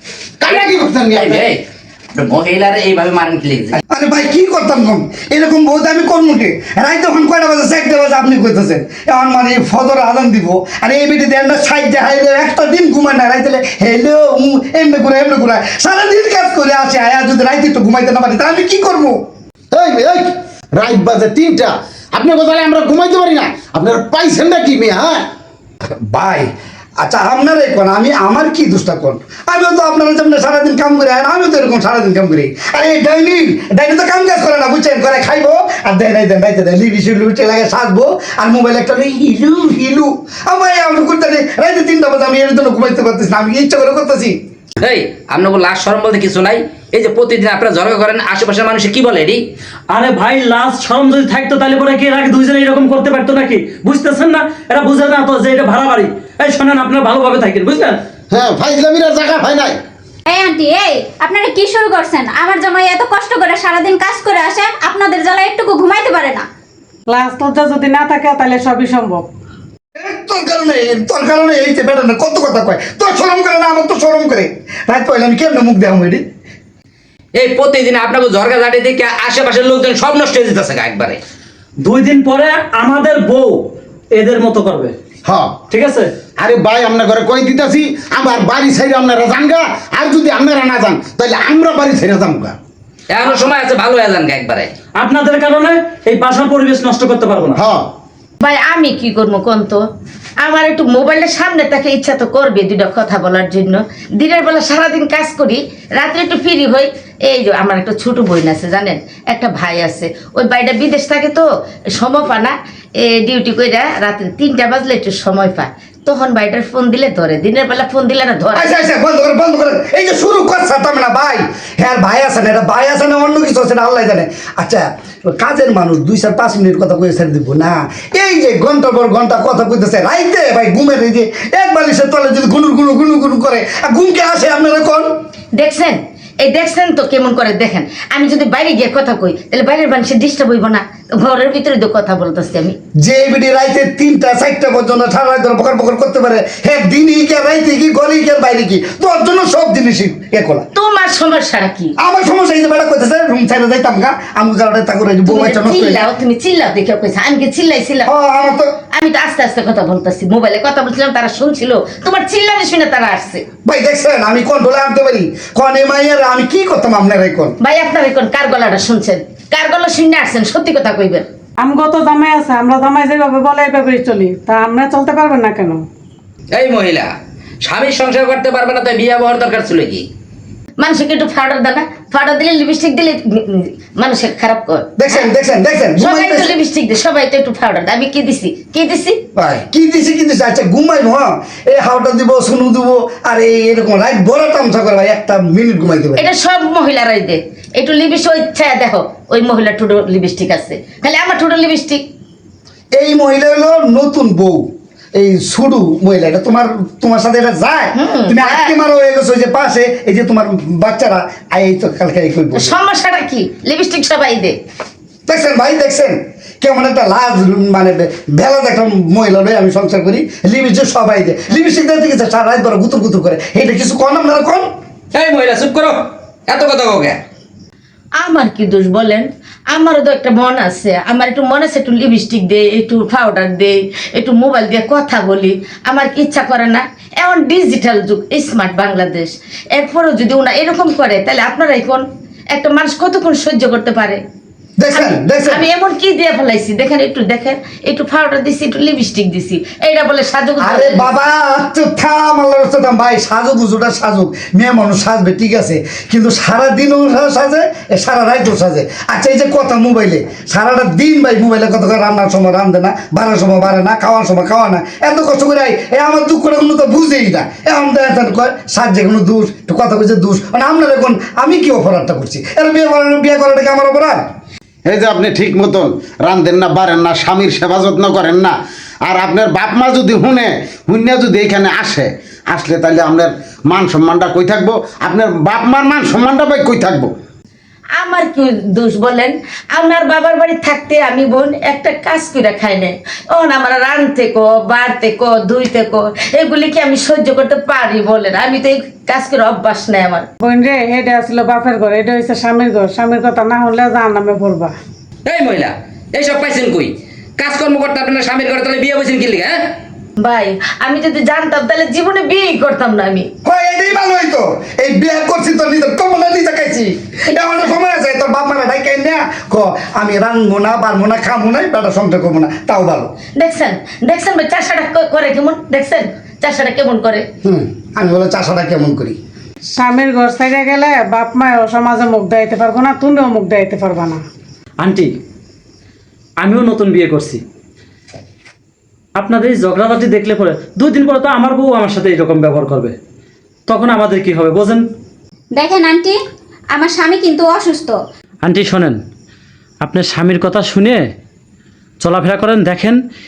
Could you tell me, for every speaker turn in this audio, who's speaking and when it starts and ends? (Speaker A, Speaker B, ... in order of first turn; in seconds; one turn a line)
Speaker A: 0.4-1.5
Speaker B: 0.5-1.6
Speaker B: 2.1-3.8
Speaker C: 3.9-19.2
Speaker A: 19.7-25.2
Speaker C: 26.1-44.4
Speaker B: 44.8-49.4
Speaker D: 49.9-58.0
Speaker A: 58.3-59.8
Speaker E: 60.3-66.5
Speaker F: 67.1-69.3
Speaker C: 69.9-76.2
Speaker B: 77.3-81.2
Speaker D: 81.8-83.6
Speaker D: 84.1-84.9
Speaker A: 85.2-85.5
Speaker D: 85.7-86.1
Speaker A: 86.4-92.5
Speaker B: 93.1-94.7
Speaker D: 95.0-97.6
Speaker A: 97.5-97.8
Speaker G: 98.4-99.8
Speaker G: 100.4-111.5
Speaker G: 112.0-118.8
Speaker C: 118.5-135.1
Speaker G: 135.6-142.7
Speaker C: 143.0-150.7
Speaker G: 150.7-151.9
Speaker C: 152.0-156.0
Speaker G: 155.2-158.1
Speaker C: 158.0-158.7
Speaker G: 158.9-163.4
Speaker C: 163.6-167.5
Speaker G: 167.6-171.2
Speaker F: 171.6-175.8
Speaker B: 176.5-177.1
Speaker B: 177.6-180.1
Speaker G: 180.8-185.2
Speaker C: 185.0-186.5
Speaker G: 186.0-189.2
Speaker C: 189.3-196.3
Speaker G: 196.2-202.0
Speaker C: 202.9-204.6
Speaker C: 205.1-212.7
Speaker G: 207.9-208.7
Speaker G: 212.5-214.6
Speaker C: 215.3-224.7
Speaker B: 225.1-227.2
Speaker G: 228.2-244.2
Speaker C: 244.8-245.6
Speaker G: 244.9-251.1
Speaker C: 250.6-274.2
Speaker A: 274.9-278.5
Speaker A: 279.1-287.1
Speaker G: 288.0-300.3
Speaker F: 300.4-304.7
Speaker B: 305.2-309.6
Speaker G: 310.2-313.3
Speaker C: 313.4-323.1
Speaker G: 317.3-317.6
Speaker G: 323.4-327.2
Speaker C: 327.4-329.2
Speaker F: 329.7-334.2
Speaker D: 334.8-335.1
Speaker D: 336.4-337.4
Speaker D: 339.1-342.9
Speaker D: 343.7-344.8
Speaker E: 345.5-346.2
Speaker E: 346.7-348.0
Speaker D: 348.4-349.0
Speaker D: 349.8-351.0
Speaker D: 352.0-353.0